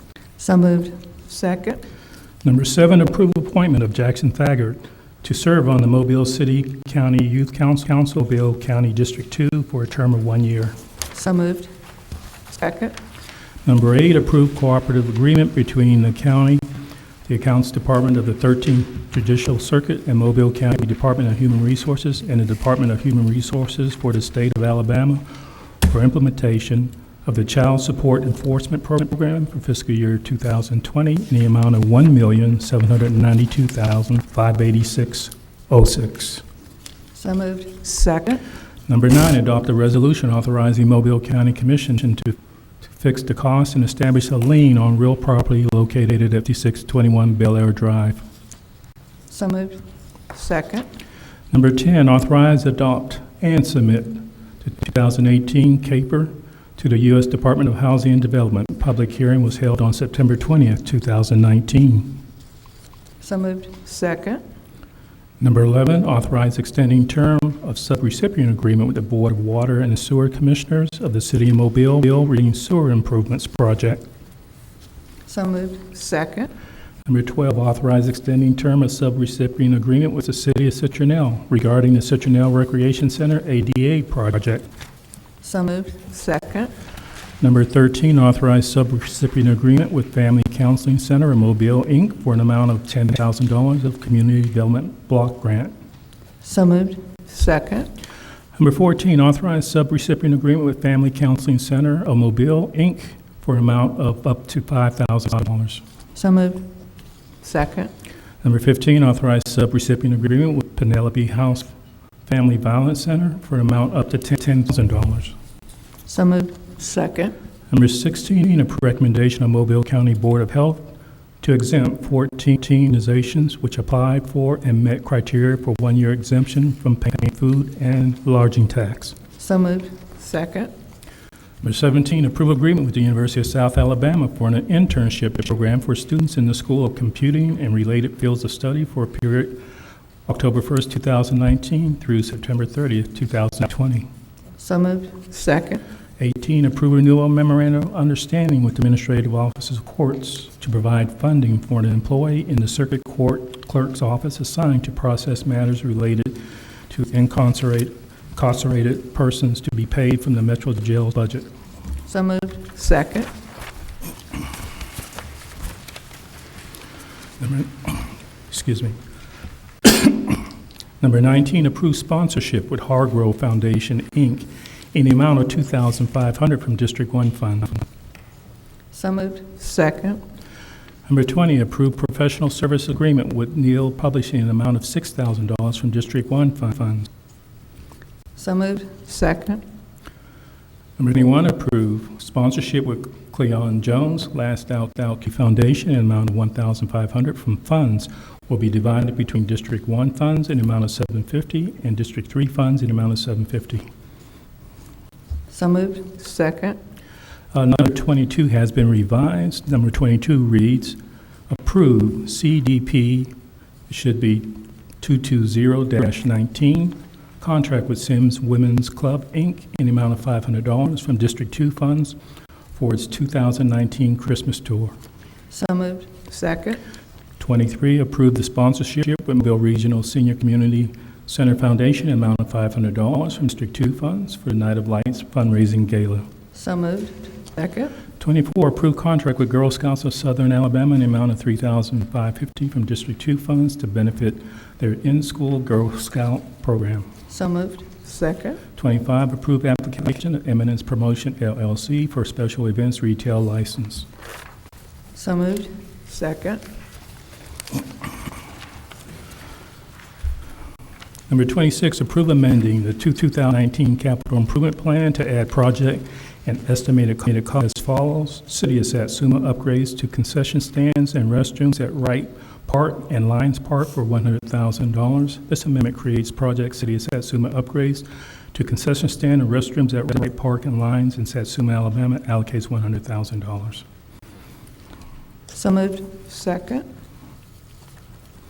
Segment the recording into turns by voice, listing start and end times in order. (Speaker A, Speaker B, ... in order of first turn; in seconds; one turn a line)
Speaker A: 0.4-1.0
Speaker B: 1.3-1.8
Speaker C: 2.4-10.8
Speaker A: 11.1-11.7
Speaker B: 12.5-13.0
Speaker C: 13.6-16.6
Speaker C: 17.2-25.2
Speaker C: 25.8-36.4
Speaker A: 37.1-37.8
Speaker B: 37.8-38.4
Speaker C: 38.9-42.4
Speaker C: 42.9-48.2
Speaker A: 49.3-49.8
Speaker B: 50.3-50.9
Speaker C: 51.5-62.2
Speaker A: 63.2-63.8
Speaker B: 63.8-64.4
Speaker C: 65.4-74.0
Speaker A: 75.3-75.9
Speaker B: 75.9-76.5
Speaker C: 77.0-84.6
Speaker A: 85.4-86.0
Speaker B: 86.1-86.7
Speaker C: 87.4-95.7
Speaker A: 96.4-97.1
Speaker B: 97.3-97.9
Speaker C: 98.5-105.8
Speaker A: 106.1-106.7
Speaker B: 107.4-107.9
Speaker C: 108.4-111.7
Speaker C: 112.2-115.3
Speaker A: 116.0-116.7
Speaker B: 116.8-117.3
Speaker C: 117.7-129.2
Speaker A: 129.4-130.0
Speaker B: 130.2-130.7
Speaker C: 131.6-139.6
Speaker C: 140.2-144.1
Speaker A: 144.6-145.2
Speaker B: 145.3-145.8
Speaker C: 146.2-161.5
Speaker A: 162.1-162.7
Speaker B: 162.7-163.3
Speaker C: 167.4-169.0
Speaker C: 169.8-170.4
Speaker C: 171.0-177.8
Speaker A: 178.9-179.6
Speaker B: 179.6-180.2
Speaker C: 181.1-187.1
Speaker A: 188.3-189.0
Speaker B: 189.1-189.6
Speaker C: 191.0-203.9
Speaker A: 205.5-206.2
Speaker B: 206.2-206.8
Speaker C: 207.5-211.0
Speaker C: 211.5-213.3
Speaker C: 213.9-222.2
Speaker C: 222.7-224.9
Speaker A: 225.5-226.2
Speaker B: 226.3-226.8
Speaker C: 227.4-236.3
Speaker A: 236.5-237.4
Speaker B: 237.6-237.9
Speaker C: 238.2-247.1
Speaker A: 247.3-248.0
Speaker B: 248.0-248.6
Speaker C: 248.7-254.1
Speaker A: 255.1-255.8
Speaker B: 256.1-256.6
Speaker C: 261.3-283.8
Speaker A: 285.5-286.2
Speaker B: 286.3-286.9